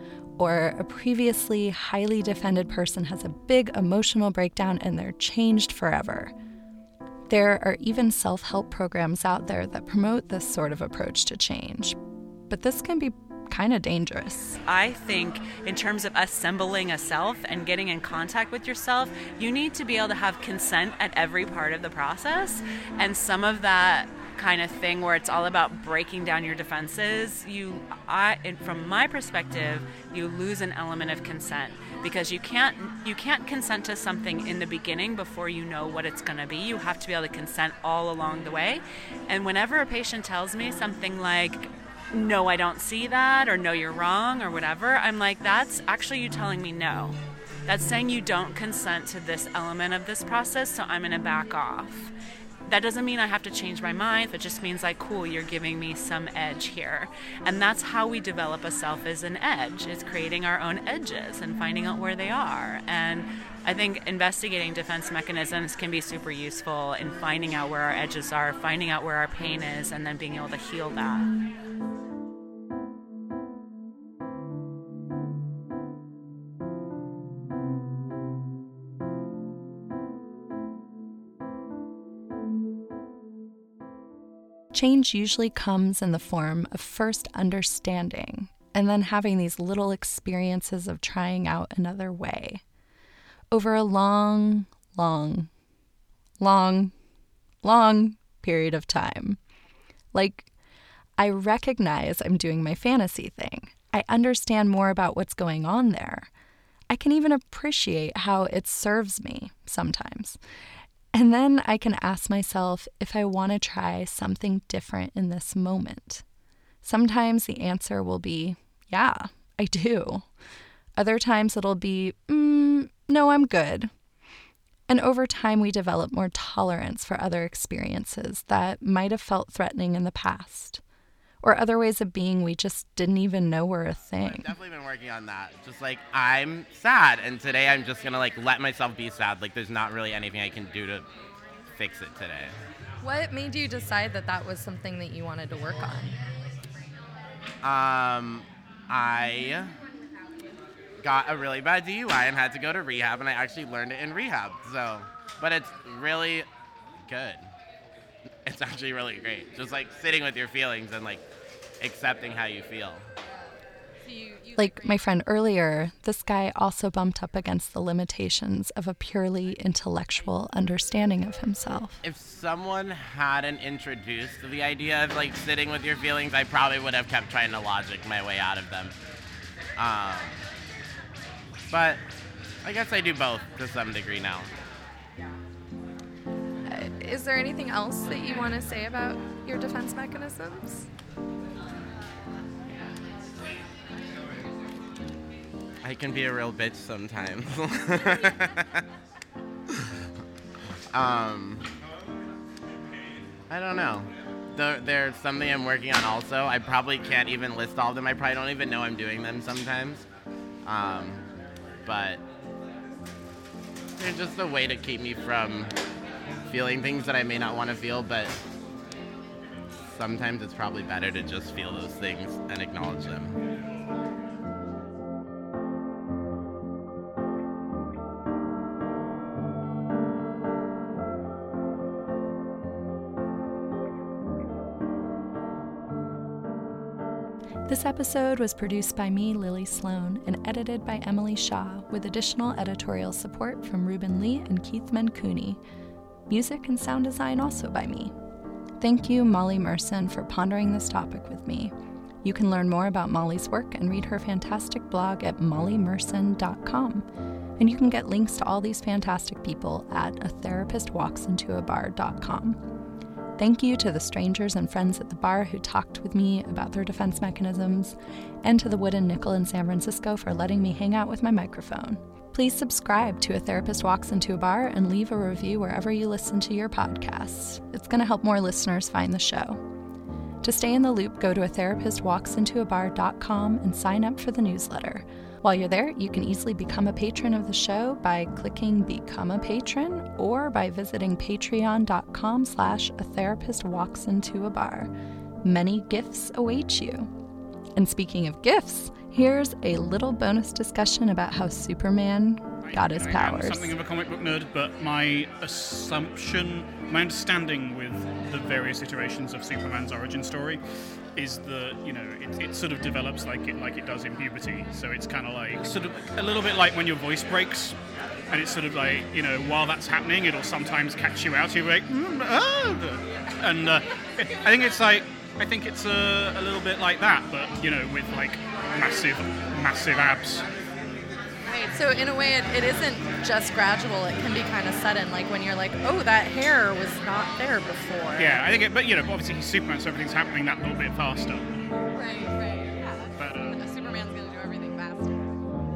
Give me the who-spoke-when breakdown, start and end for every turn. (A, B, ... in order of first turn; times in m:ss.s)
0:00.4-0:06.3 A
0:07.3-0:12.0 A
0:12.5-0:14.6 A
0:14.7-0:52.1 B
0:52.6-1:11.3 B
1:24.7-1:32.6 A
1:33.5-1:35.5 A
1:36.4-1:36.9 A
1:37.6-1:39.4 A
1:40.1-1:40.5 A
1:41.2-1:46.3 A
1:46.9-1:50.4 A
1:51.1-1:56.2 A
1:56.8-2:00.3 A
2:01.0-2:03.9 A
2:04.9-2:10.8 A
2:11.4-2:14.5 A
2:14.2-2:21.1 C
2:21.8-2:22.5 C
2:23.0-2:26.2 D
2:27.6-2:29.7 C
2:31.0-2:36.5 C
2:37.0-2:37.4 C
2:38.4-2:41.2 C
2:41.8-2:43.0 C
2:44.1-2:44.4 D
2:44.5-2:52.0 A
2:52.0-2:58.9 C
2:59.8-3:00.4 C
3:01.7-3:02.0 C
3:02.6-3:04.5 C
3:06.7-3:10.9 D
3:15.8-3:18.8 C
3:20.9-3:21.6 C
3:23.5-3:30.0 C
3:30.6-3:31.2 C
3:31.8-3:32.2 C
3:34.0-3:35.7 C
3:36.5-3:38.3 C
3:39.9-3:43.4 C
3:57.6-4:05.6 A
4:06.3-4:08.1 A
4:08.8-4:17.0 A
4:17.6-4:22.6 A
4:23.4-4:39.6 A
4:40.4-4:54.9 A
4:55.4-4:57.1 A
4:57.8-5:03.7 A
5:02.6-5:10.6 E
5:11.2-5:17.8 E
5:18.3-5:30.4 E
5:31.4-5:38.4 D
5:38.2-5:41.5 E
5:41.9-5:45.3 D
5:43.2-5:43.6 E